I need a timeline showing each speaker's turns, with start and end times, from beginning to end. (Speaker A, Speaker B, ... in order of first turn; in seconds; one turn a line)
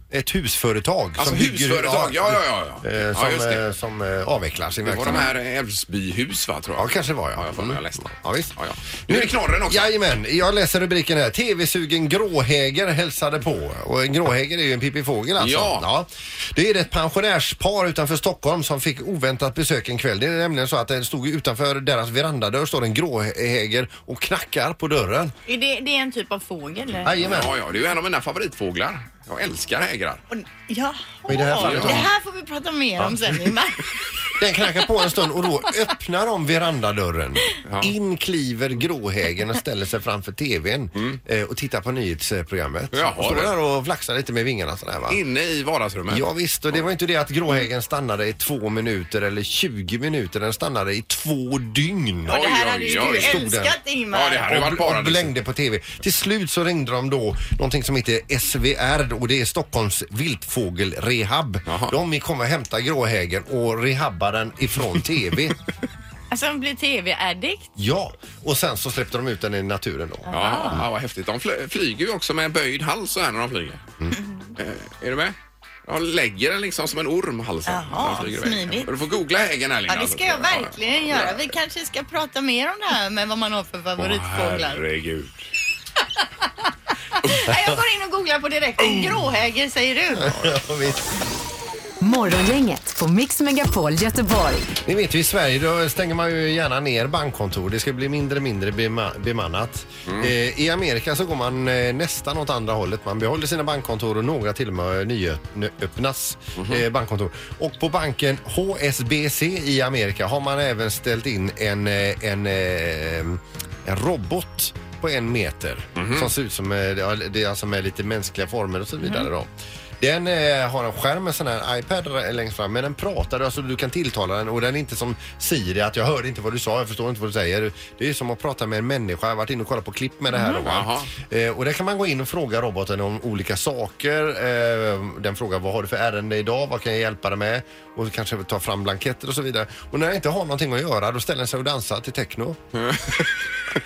Speaker A: 0.1-5.3
Speaker B: 1.2-3.6
Speaker B: 4.8-9.9
Speaker A: 6.8-8.6
Speaker A: 9.1-25.3
Speaker B: 15.4-15.9
Speaker C: 25.5-27.2
Speaker A: 27.0-27.5
Speaker B: 27.1-30.2
Speaker C: 30.3-34.9
Speaker A: 31.3-32.1
Speaker B: 31.6-32.1
Speaker A: 33.0-33.4
Speaker A: 34.4-45.2
Speaker B: 37.7-37.9
Speaker B: 42.9-43.5
Speaker B: 45.1-46.9
Speaker A: 46.1-53.8
Speaker C: 52.3-54.5
Speaker B: 52.3-53.4
Speaker B: 54.1-55.4
Speaker A: 54.4-65.6
Speaker B: 61.7-62.0
Speaker C: 66.3-67.7
Speaker A: 67.8-70.8
Speaker C: 70.3-70.8
Speaker B: 70.3-73.8
Speaker B: 74.6-81.5
Speaker C: 77.7-78.9
Speaker C: 79.9-84.8
Speaker B: 84.0-85.5
Speaker C: 87.2-90.5
Speaker A: 90.2-91.1
Speaker D: 92.0-94.7
Speaker A: 94.8-142.6
Speaker B: 100.1-100.3
Speaker B: 106.6-106.8
Speaker B: 116.0-116.3
Speaker C: 130.3-130.6
Speaker B: 130.6-131.1
Speaker B: 142.8-143.7